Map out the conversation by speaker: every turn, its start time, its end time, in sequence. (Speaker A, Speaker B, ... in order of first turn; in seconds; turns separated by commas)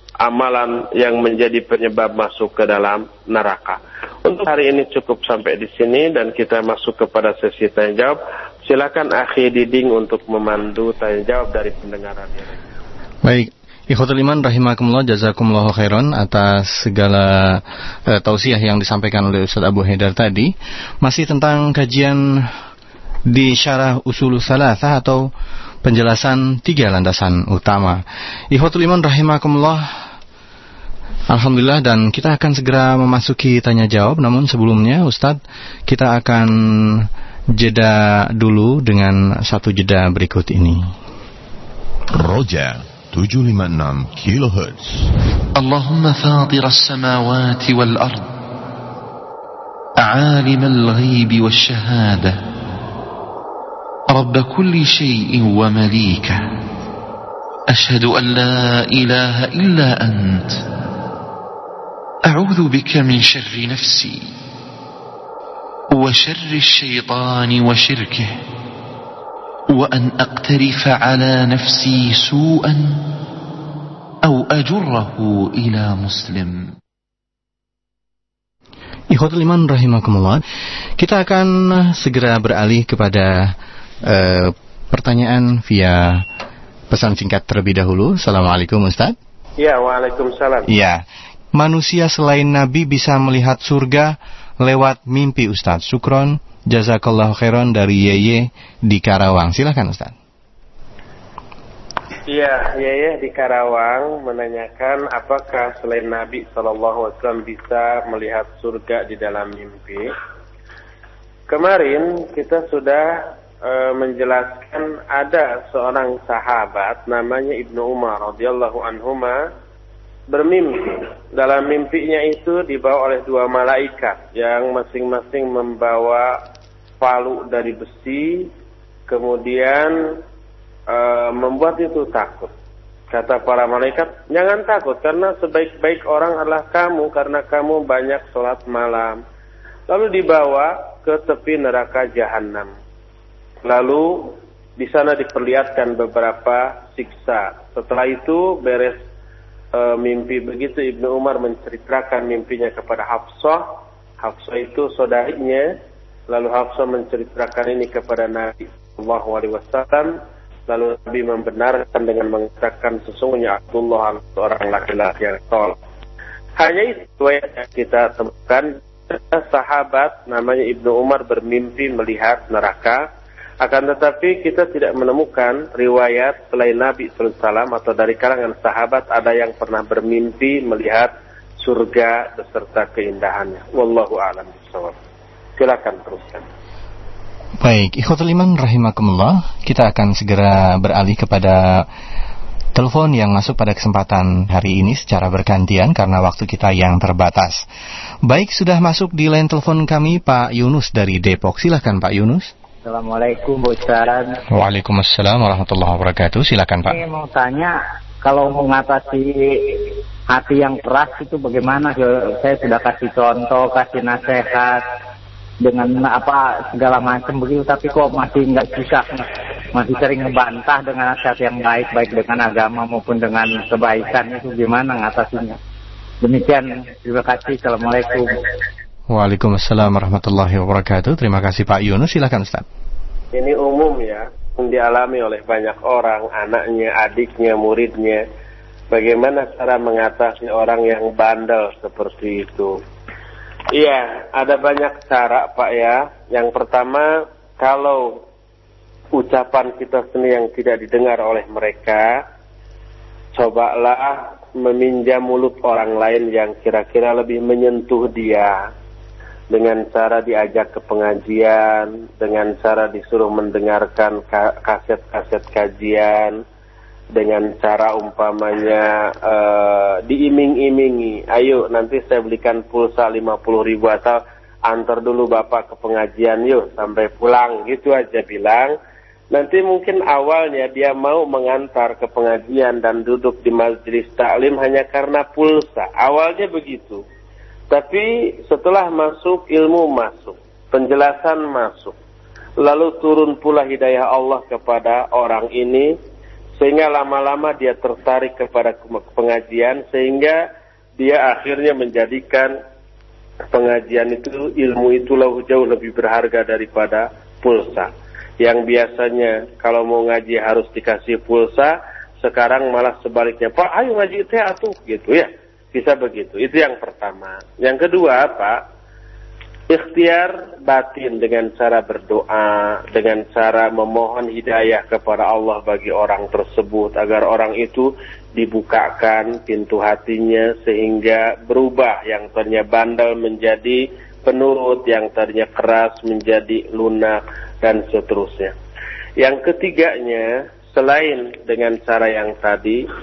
Speaker A: 0.2-12.6, Speaker B: 13.2-20.5, Speaker B: 21.0-22.2, Speaker B: 23.3-25.2, Speaker B: 25.8-28.0, Speaker B: 28.5-29.8, Speaker B: 31.3-40.8, Speaker C: 42.1-45.1, Speaker D: 45.5-48.3, Speaker D: 50.0-52.4, Speaker D: 54.1-56.4, Speaker D: 57.7-60.6, Speaker D: 62.2-64.3, Speaker D: 65.9-68.4, Speaker D: 69.7-73.2, Speaker D: 74.2-76.8, Speaker B: 79.1-80.4, Speaker B: 81.0-83.5, Speaker B: 84.0-86.2, Speaker B: 86.9-89.1, Speaker A: 89.6-90.7, Speaker B: 90.7-91.0, Speaker B: 91.5-100.1, Speaker A: 102.3-110.1, Speaker A: 111.5-119.4, Speaker A: 120.3-126.4, Speaker A: 127.0-128.5, Speaker A: 129.1-130.2, Speaker A: 130.9-132.5, Speaker A: 133.1-139.2, Speaker A: 139.9-142.7, Speaker A: 143.6-149.0, Speaker A: 149.7-153.6, Speaker A: 154.2-155.7, Speaker A: 156.3-160.2, Speaker A: 160.7-165.8, Speaker A: 166.6-173.0, Speaker A: 173.6-184.9, Speaker A: 185.6-186.4, Speaker B: 187.6-191.8, Speaker B: 192.7-197.6, Speaker B: 198.3-202.5, Speaker E: 202.8-204.4, Speaker B: 204.5-207.0, Speaker E: 206.9-214.8, Speaker E: 215.6-225.6, Speaker E: 226.2-228.4, Speaker B: 229.1-232.6, Speaker A: 233.3-238.2, Speaker A: 238.9-242.8, Speaker A: 243.7-248.2, Speaker A: 249.1-252.2, Speaker A: 253.3-258.7, Speaker A: 259.5-266.4, Speaker A: 267.1-278.7, Speaker A: 279.3-287.0, Speaker A: 287.7-291.9, Speaker A: 292.6-295.9, Speaker A: 296.6-300.4, Speaker A: 301.0-302.5, Speaker A: 303.5-307.9, Speaker A: 308.4-318.6, Speaker A: 319.7-338.5, Speaker A: 339.2-342.8